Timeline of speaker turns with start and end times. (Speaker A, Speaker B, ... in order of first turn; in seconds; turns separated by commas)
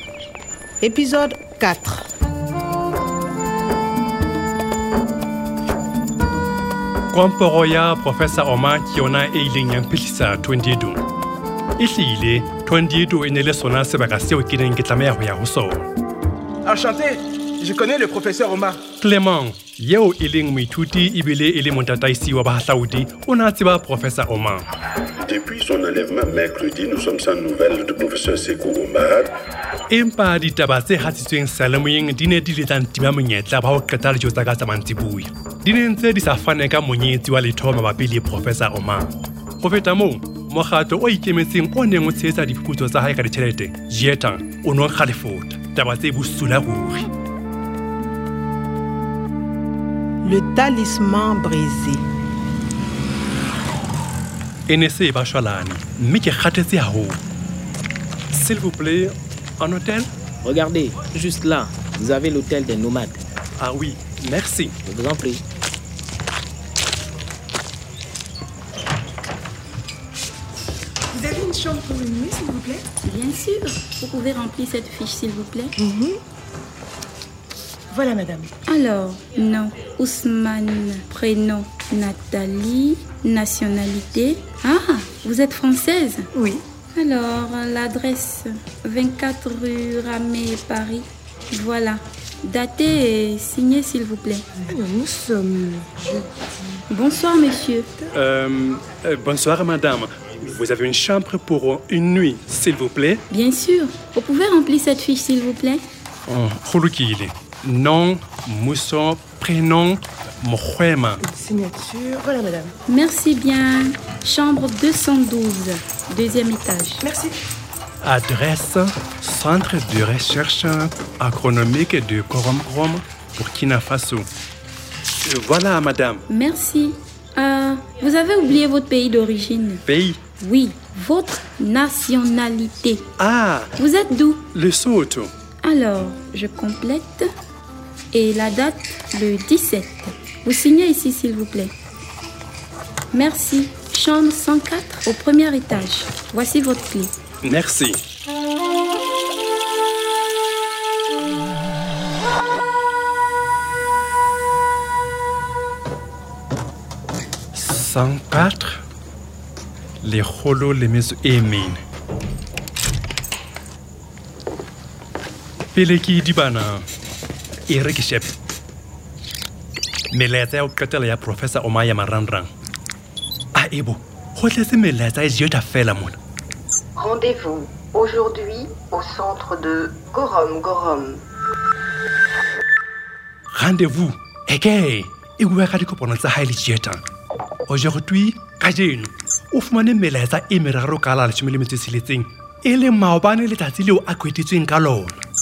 Speaker A: 0.8-2.0, Speaker B: 7.1-11.0, Speaker B: 11.8-15.8, Speaker C: 16.6-18.8, Speaker B: 19.0-24.6, Speaker D: 25.2-29.3, Speaker B: 29.9-47.1, Speaker A: 50.2-52.0, Speaker B: 54.7-57.2, Speaker B: 58.3-60.1, Speaker E: 60.4-63.2, Speaker B: 63.6-64.8, Speaker E: 64.8-65.4, Speaker F: 71.1-72.8, Speaker G: 73.0-75.7, Speaker F: 75.8-76.2, Speaker F: 77.9-78.5, Speaker G: 78.7-86.3, Speaker F: 86.3-86.6, Speaker G: 86.9-94.5, Speaker F: 94.6-96.8, Speaker G: 96.9-97.9, Speaker B: 98.1-103.2, Speaker G: 103.3-105.8, Speaker B: 106.3-111.2, Speaker F: 111.2-112.7, Speaker G: 112.9-117.0, Speaker F: 117.0-117.3, Speaker B: 118.0-124.3, Speaker B: 125.2-126.2, Speaker G: 126.3-129.8, Speaker B: 129.8-130.2, Speaker G: 130.4-133.0, Speaker B: 133.2-133.8, Speaker G: 133.8-134.4, Speaker B: 134.5-135.3, Speaker G: 135.6-137.2, Speaker G: 138.1-141.7, Speaker G: 143.1-147.1, Speaker B: 147.4-148.0, Speaker B: 157.5-158.8, Speaker B: 160.0-161.8, Speaker B: 165.7-166.8, Speaker B: 167.7-168.3, Speaker B: 170.1-172.5, Speaker B: 173.5-176.2, Speaker H: 176.9-181.2, Speaker B: 183.5-187.0, Speaker B: 187.7-195.2